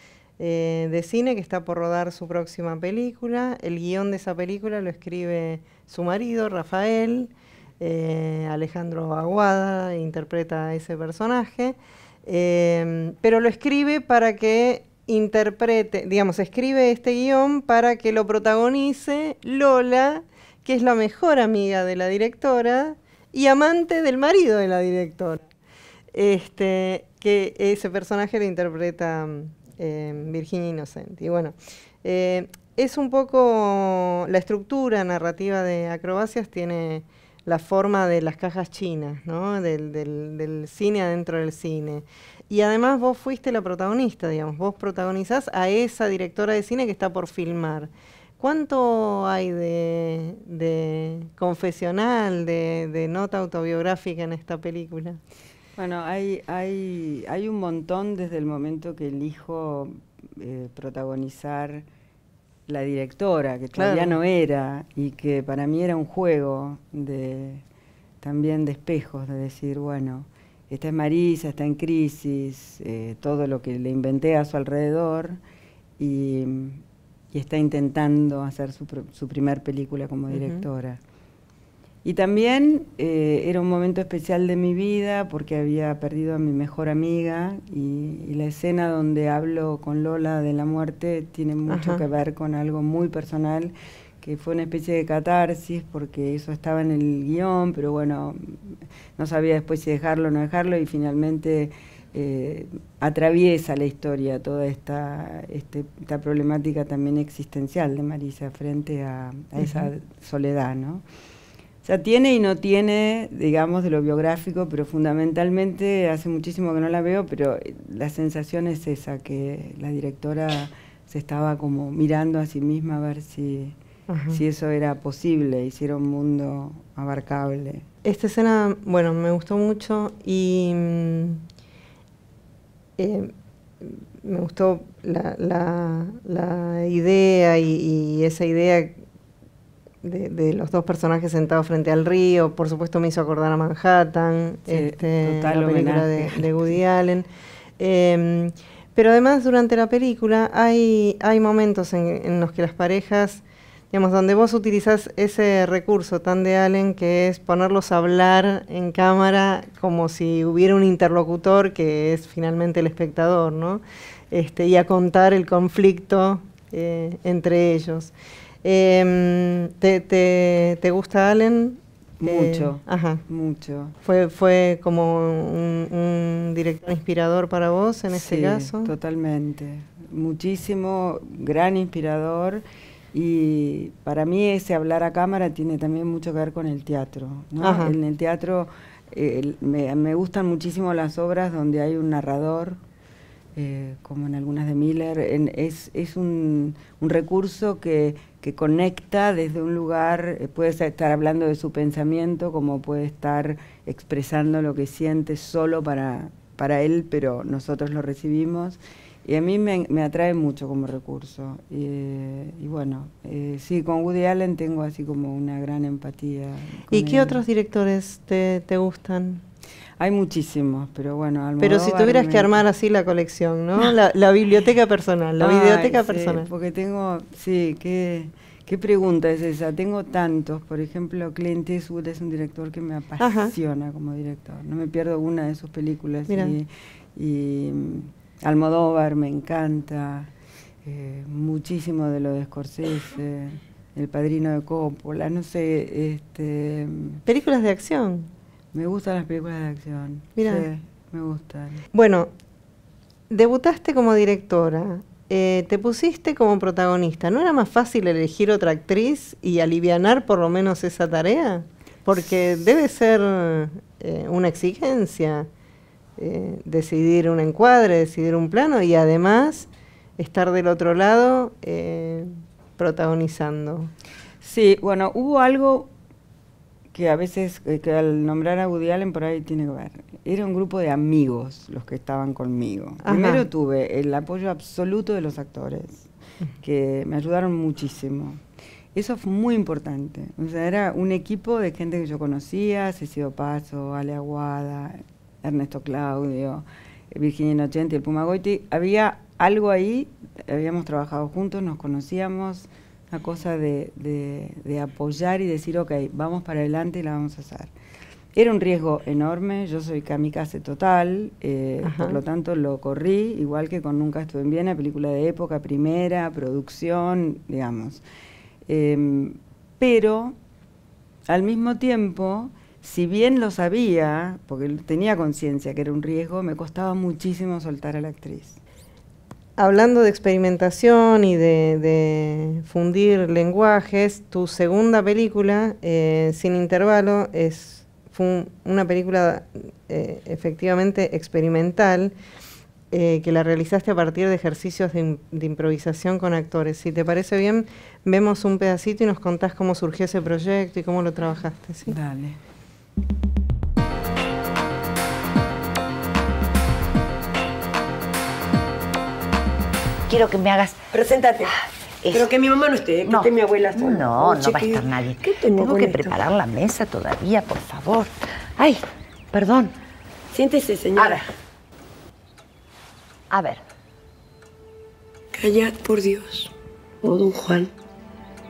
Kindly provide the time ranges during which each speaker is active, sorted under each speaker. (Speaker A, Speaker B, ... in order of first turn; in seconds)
Speaker A: 0.4-25.5, 26.1-55.2, 63.8-64.2, 80.3-80.7, 91.7-92.0, 109.6-109.9, 124.1-124.4, 128.0-131.4, 133.0-139.0, 140.0-147.3, 147.8-173.2, 174.0-178.9, 187.6-187.9, 216.9-219.4, 221.6-226.5, 233.2-233.5, 236.3-236.6, 247.3-248.3, 250.4-250.7, 251.9-252.3, 253.3-265.5, 266.2-273.9, 283.1-283.4, 311.8-312.2, 329.6-342.1, 342.9-352.0
Speaker B: 55.8-61.9, 62.7-67.6, 68.2-75.4, 76.0-81.0, 82.0-111.0, 111.8-123.8, 124.3-127.9, 144.7-146.5, 172.2-173.9, 178.1-192.8, 193.6-217.4, 220.0-222.6, 225.4-240.3, 240.8-247.2, 248.7-251.8, 274.4-275.9, 276.9-286.1, 286.6-288.4, 288.9-307.7, 308.3-318.0, 318.7-320.4, 321.3-328.6, 351.9-352.4
Speaker C: 360.1-360.8, 362.0-362.3, 363.1-369.7, 373.3-373.6
Speaker D: 360.9-361.6, 362.1-366.2, 370.3-371.3, 375.3-377.7